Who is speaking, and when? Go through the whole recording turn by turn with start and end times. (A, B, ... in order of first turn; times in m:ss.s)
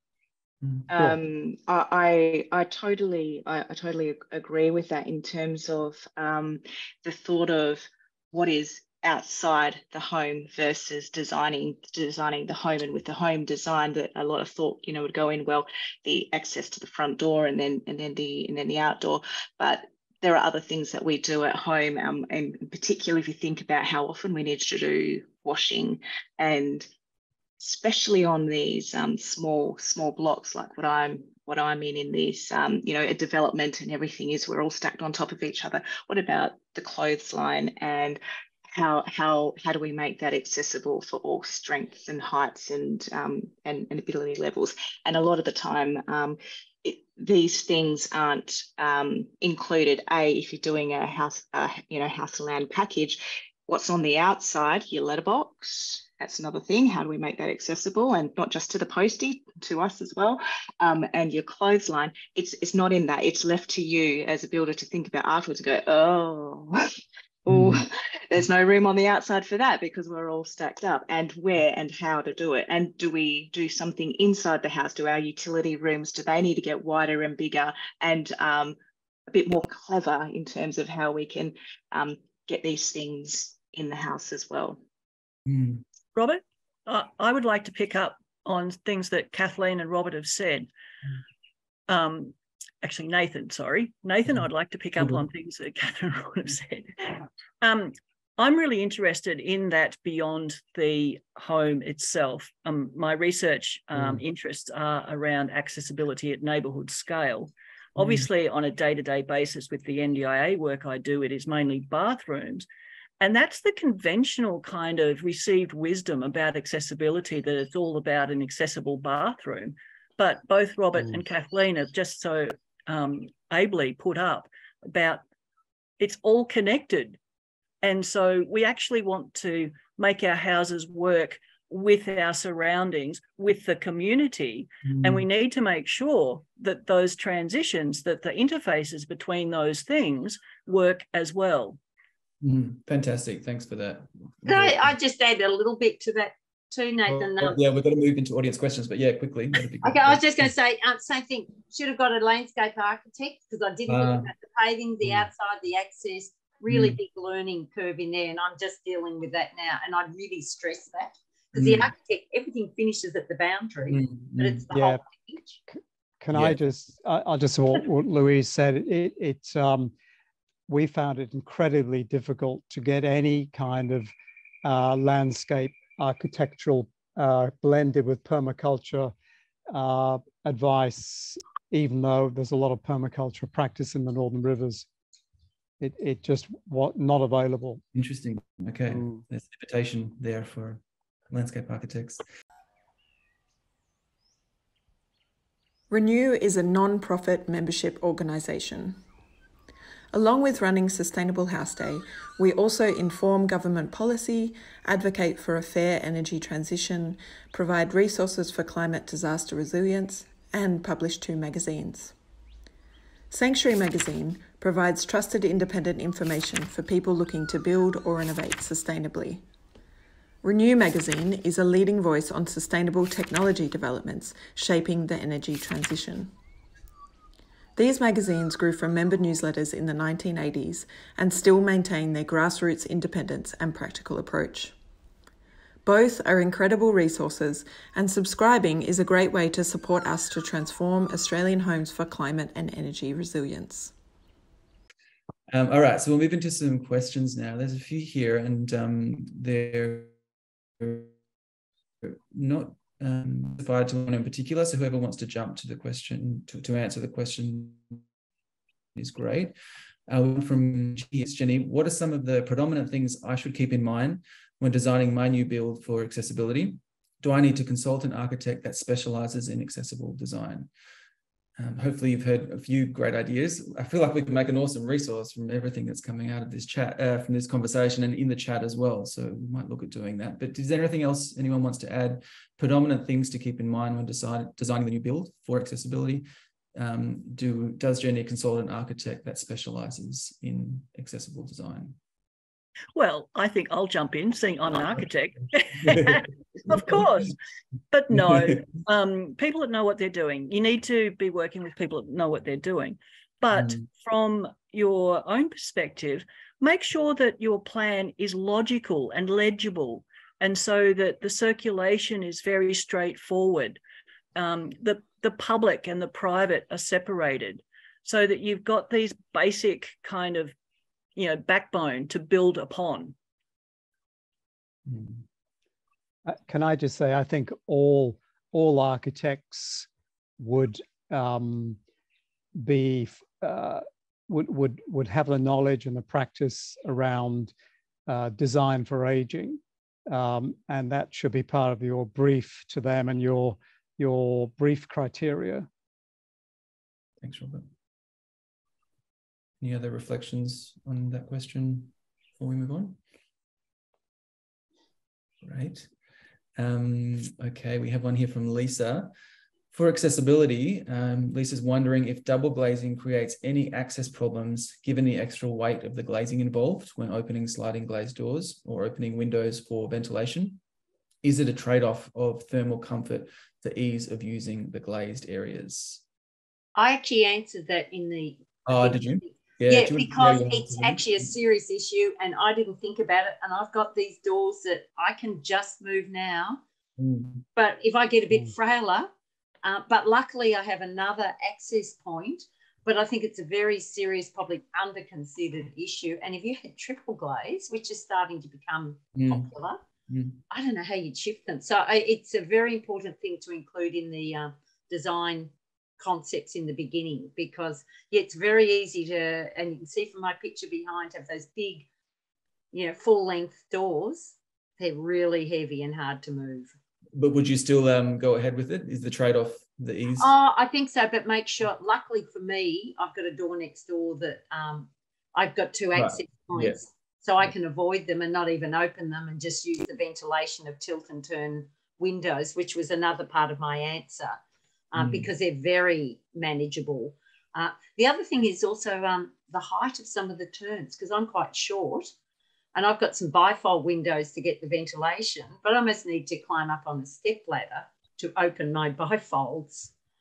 0:00.6-0:00.9 A
0:00.9-0:26.9 B
0:27.6-0:38.2 B
0:38.7-1:06.8 B
1:07.4-1:18.8 B
1:07.5-1:07.8 A
1:19.3-1:24.8 B
1:25.5-1:25.8 A
1:26.2-1:30.7 C
1:31.9-1:36.9 C
1:37.6-1:52.7 C
1:48.0-1:48.3 A
1:53.2-2:05.2 C
2:06.0-2:07.2 C
2:07.8-2:21.8 C
2:14.9-2:15.3 A
2:22.4-2:24.9 A
2:24.5-2:27.6 D
2:27.1-2:30.5 A
2:29.8-2:45.6 D
2:33.9-2:34.3 A
2:36.7-2:37.0 A
2:41.6-2:41.9 A
2:43.9-2:44.6 A
2:44.7-2:45.0 E
2:45.7-2:49.9 E
2:46.3-2:46.6 A
2:50.7-2:54.1 E
2:54.6-2:59.1 E
2:59.7-3:04.9 E
3:05.8-3:07.8 E
3:07.9-3:12.2 A
3:08.9-3:09.2 E
3:15.9-3:19.0 F
3:20.1-3:32.2 F
3:33.3-3:39.4 F
3:40.4-3:46.3 F
3:47.8-3:54.8 F
3:55.8-4:03.9 F
4:05.5-4:10.1 A
4:10.8-4:11.1 A
4:12.0-4:18.0 A
4:19.0-4:19.6 A
4:20.1-4:30.7 A
4:31.6-4:52.0 A
4:53.0-4:57.4 C
4:55.8-4:57.0 A
4:57.9-5:13.8 C
4:58.2-4:58.6 A
5:03.5-5:03.8 A
5:14.4-5:20.5 C
5:21.2-5:23.2 C
5:24.9-5:25.2 A
5:26.3-5:29.9 E
5:30.4-5:31.8 E
5:32.6-5:37.5 E
5:38.1-5:45.7 E
5:47.2-5:47.7 A
5:49.6-5:53.0 A
5:55.4-5:55.9 A
5:56.6-5:59.1 A
5:59.7-6:10.6 A
6:11.2-6:16.0 A
6:16.8-6:26.6 D
6:18.7-6:21.2 A
6:27.0-6:27.4 A
6:27.6-6:29.1 D
6:29.6-6:39.8 D
6:39.2-6:39.5 A
6:40.1-6:40.4 A
6:40.5-6:51.9 D
6:52.7-6:56.7 D
6:57.2-7:00.3 A
7:00.2-7:14.4 D
7:06.0-7:06.8 A
7:14.9-7:22.1 D
7:15.0-7:15.3 A
7:22.7-7:29.9 D